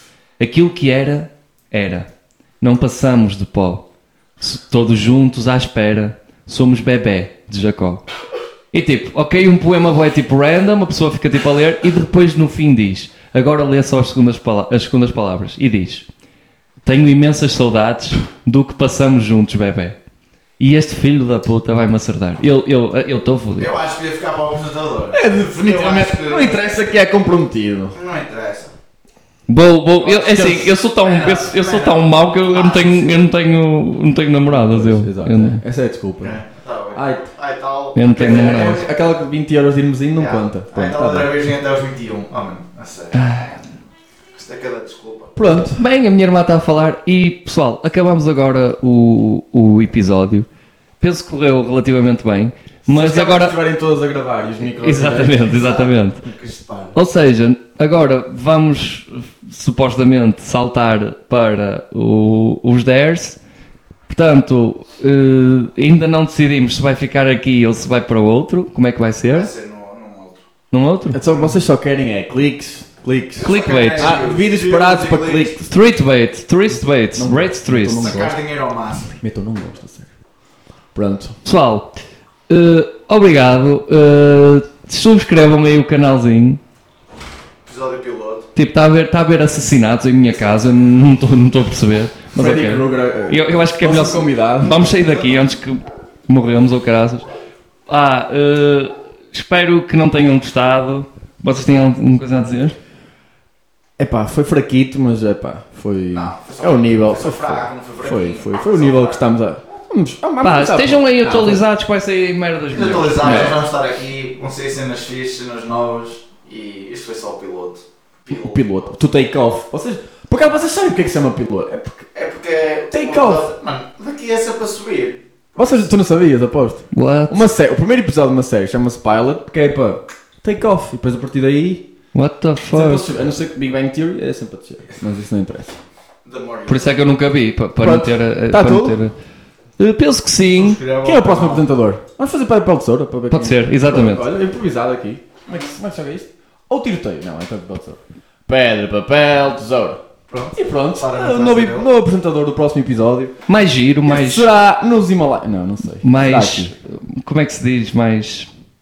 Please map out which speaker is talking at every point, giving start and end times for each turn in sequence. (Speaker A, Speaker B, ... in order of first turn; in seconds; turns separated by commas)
Speaker A: 0.4-2.1, Speaker A: 2.6-3.8, Speaker A: 4.4-8.0, Speaker A: 8.7-16.1, Speaker A: 16.8-20.0, Speaker A: 20.6-23.7, Speaker B: 23.6-26.7, Speaker C: 25.1-27.9, Speaker B: 27.9-28.7, Speaker A: 29.5-35.6, Speaker B: 30.0-33.3, Speaker C: 30.3-30.7, Speaker C: 34.5-36.4, Speaker B: 36.2-39.0, Speaker C: 36.9-37.3, Speaker A: 37.9-38.8, Speaker C: 38.1-41.3, Speaker B: 40.1-43.2, Speaker A: 43.1-43.6, Speaker B: 44.3-45.6, Speaker C: 45.4-45.8, Speaker A: 45.7-50.5, Speaker A: 51.0-53.6, Speaker C: 52.9-55.4, Speaker A: 54.8-56.2, Speaker B: 55.3-57.0, Speaker A: 56.9-63.4, Speaker A: 64.1-69.5, Speaker B: 69.3-70.4, Speaker A: 70.7-71.2, Speaker C: 71.1-75.7, Speaker B: 73.4-75.6, Speaker A: 73.4-74.2, Speaker A: 75.7-78.3, Speaker C: 77.2-78.3, Speaker B: 77.9-79.1, Speaker C: 79.2-80.1, Speaker C: 80.9-81.4, Speaker A: 81.4-86.6, Speaker B: 87.6-88.5, Speaker A: 88.5-97.2, Speaker C: 92.3-94.8, Speaker A: 97.9-102.8, Speaker C: 104.0-111.6, Speaker B: 106.1-109.2, Speaker A: 110.4-113.6, Speaker B: 112.7-118.7, Speaker C: 113.2-113.6, Speaker C: 118.3-122.1, Speaker B: 122.1-125.9, Speaker C: 122.9-123.5, Speaker C: 125.5-131.8, Speaker A: 126.9-127.4, Speaker A: 132.1-133.2, Speaker C: 132.7-135.8, Speaker B: 136.2-136.9, Speaker A: 136.7-139.2, Speaker C: 137.8-139.0, Speaker A: 139.8-140.8, Speaker B: 140.5-141.6, Speaker C: 141.0-150.0, Speaker A: 143.3-144.3, Speaker B: 150.3-151.9, Speaker C: 150.5-153.3, Speaker A: 153.5-154.5, Speaker C: 154.0-156.7, Speaker A: 156.0-158.5